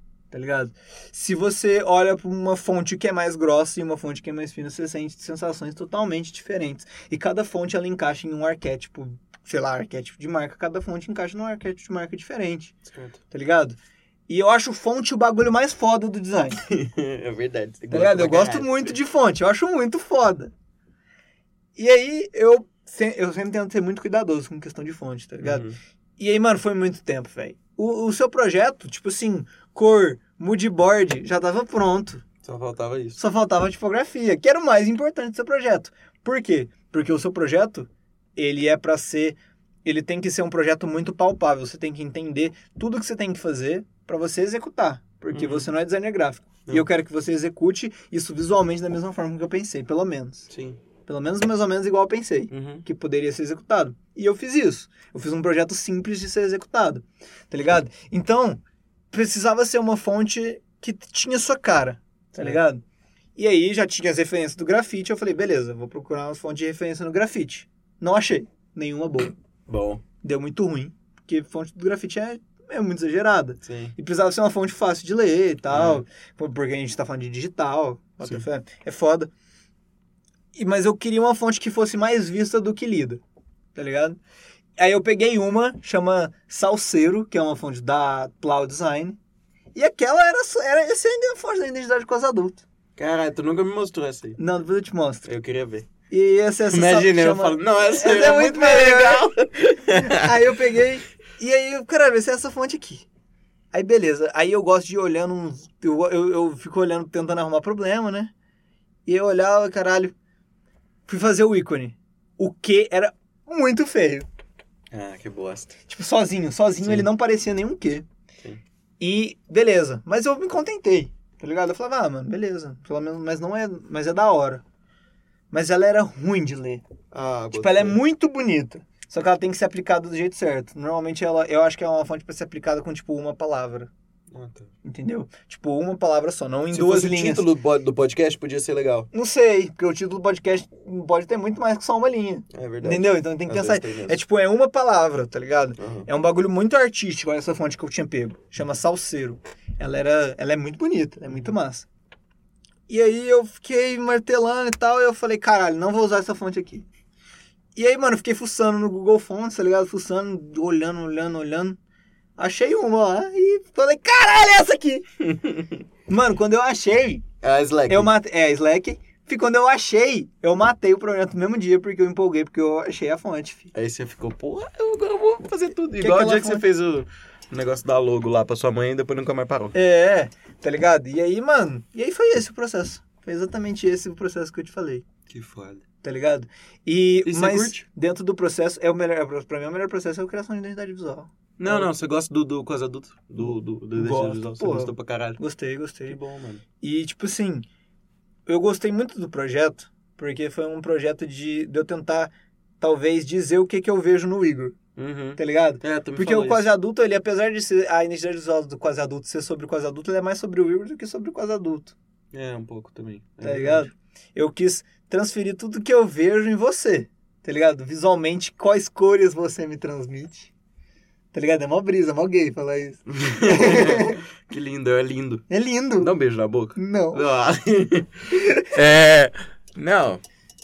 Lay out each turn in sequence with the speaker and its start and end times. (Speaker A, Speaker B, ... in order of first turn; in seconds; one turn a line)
Speaker A: 0.3-12.7
Speaker B: 12.8-13.2
Speaker A: 13.3-16.6
Speaker B: 16.7-18.9
Speaker A: 17.9-20.5
Speaker A: 21.8-25.6
Speaker B: 25.4-25.8
Speaker A: 26.2-32.2
Speaker B: 32.4-33.2
Speaker A: 33.2-50.5
Speaker B: 45.3-45.7
Speaker B: 50.5-50.8
Speaker A: 51.0-58.6
Speaker B: 52.5-52.8
Speaker A: 59.1-62.8
Speaker B: 62.3-62.6
Speaker A: 63.4-69.3
Speaker B: 69.7-70.0
Speaker A: 70.2-79.3
Speaker B: 73.6-73.9
Speaker B: 75.7-76.0
Speaker A: 80.5-83.2
Speaker A: 83.7-84.2
Speaker A: 84.8-89.2
Speaker A: 89.7-92.6
Speaker B: 93.0-94.4
Speaker A: 94.4-95.3
Speaker B: 95.2-95.9
Speaker A: 96.1-99.3
Speaker B: 96.7-100.4
Speaker A: 99.9-103.0
Speaker A: 103.7-108.3
Speaker A: 109.0-110.1
Speaker A: 111.0-114.3
Speaker B: 114.9-115.8
Speaker A: 115.9-118.0
Speaker B: 116.8-117.1
Speaker A: 119.0-124.6
Speaker A: 125.5-126.8
Speaker B: 127.1-128.0
Speaker A: 127.5-133.9
Speaker B: 134.3-134.7
Speaker A: 134.8-137.5
Speaker B: 136.7-139.1
Speaker A: 139.1-151.9
Speaker B: 142.5-144.2
Speaker B: 145.8-146.1
Speaker A: 152.9-156.8
Speaker A: 157.8-161.8
Speaker A: 162.4-165.1
Speaker B: 165.2-165.8
Speaker A: 166.1-167.2
Speaker B: 167.4-168.1
Speaker A: 167.9-173.7
Speaker B: 173.7-179.7
Speaker A: 176.0-176.6
Speaker A: 179.7-185.1
Speaker B: 185.3-185.8
Speaker A: 186.0-191.9
Speaker B: 187.2-187.8
Speaker B: 191.6-195.4
Speaker A: 193.9-196.2
Speaker B: 196.1-196.6
Speaker A: 196.8-197.7
Speaker A: 198.5-204.8
Speaker B: 204.9-206.7
Speaker A: 205.4-211.9
Speaker B: 212.3-213.9
Speaker A: 213.4-220.5
Speaker A: 221.3-224.2
Speaker B: 223.1-225.4
Speaker A: 225.5-226.1
Speaker B: 226.0-230.2
Speaker A: 226.8-227.3